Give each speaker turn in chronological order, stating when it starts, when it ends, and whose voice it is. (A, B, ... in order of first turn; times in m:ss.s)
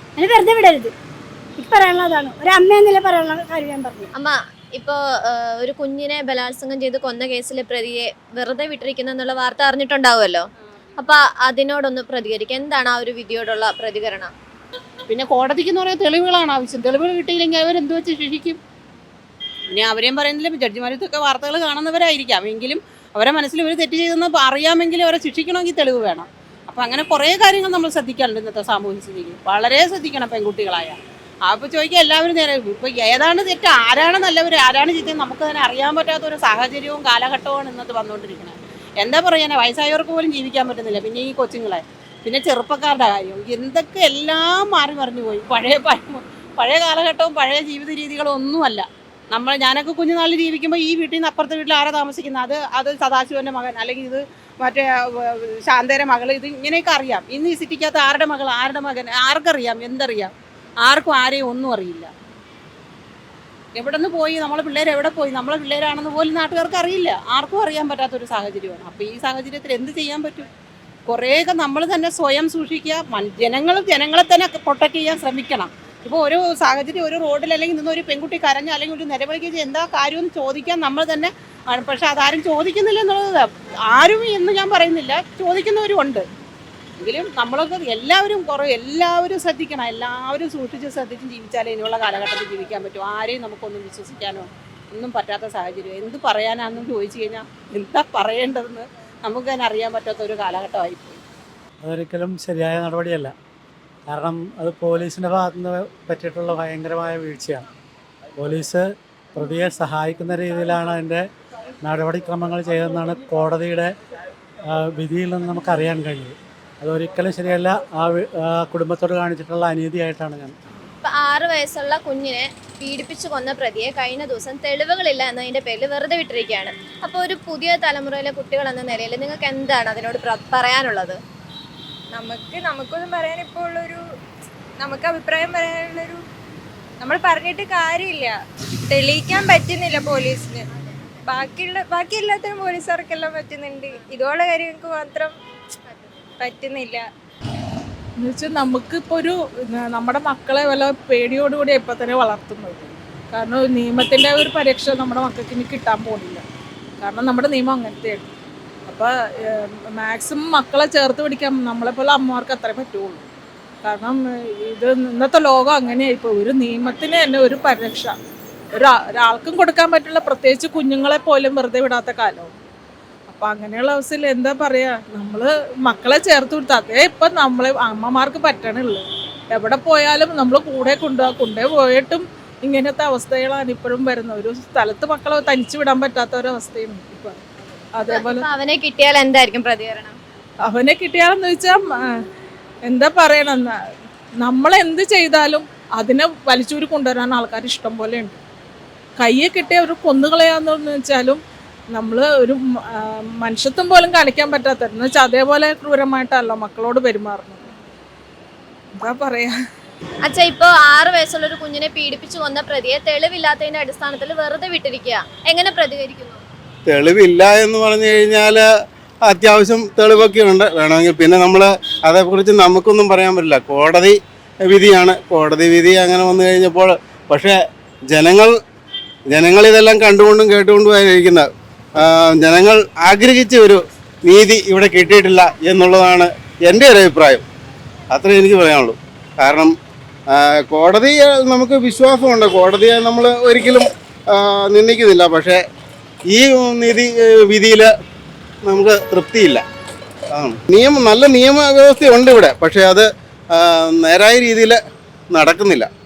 0:00.2-0:00.9 A
0:01.6-0:04.1 A
0:04.1-0:10.4 B
0:11.0-0:14.3 B
0:15.1-0:18.6 C
0:19.7-1:00.3 C
1:00.8-1:02.1 C
1:03.8-1:10.5 C
1:11.1-1:26.3 C
1:27.0-1:41.2 C
1:41.8-1:43.3 D
1:44.1-1:47.6 D
1:48.4-1:51.2 D
1:51.8-1:53.9 D
1:54.7-2:00.5 D
2:01.0-2:11.2 B
2:12.1-2:14.0 E
2:14.8-2:16.2 E
2:17.0-2:18.4 E
2:18.9-2:20.6 E
2:21.2-2:25.4 E
2:26.4-2:27.1 E
2:28.2-2:36.4 F
2:37.0-2:38.3 F
2:38.9-2:43.2 F
2:43.8-2:48.2 F
2:48.7-2:52.5 F
2:53.3-3:07.4 F
3:07.9-3:08.4 F
3:08.1-3:10.2 B
3:10.6-3:12.2 F
3:12.8-3:13.8 F
3:14.4-3:18.4 F
3:19.2-3:21.4 F
3:21.9-3:27.6 F
3:29.0-3:29.5 F
3:30.2-3:36.4 B
3:36.8-3:38.6 G
3:39.2-3:47.6 G
3:48.1-3:48.5 G
3:49.3-3:51.5 G
3:52.0-3:57.4 G
3:58.1-3:59.7 G
4:00.3-4:05.6 G
4:06.3-4:07.9 G
4:08.6-4:09.6 G
4:10.3-4:14.8 G
4:15.3-4:15.9 G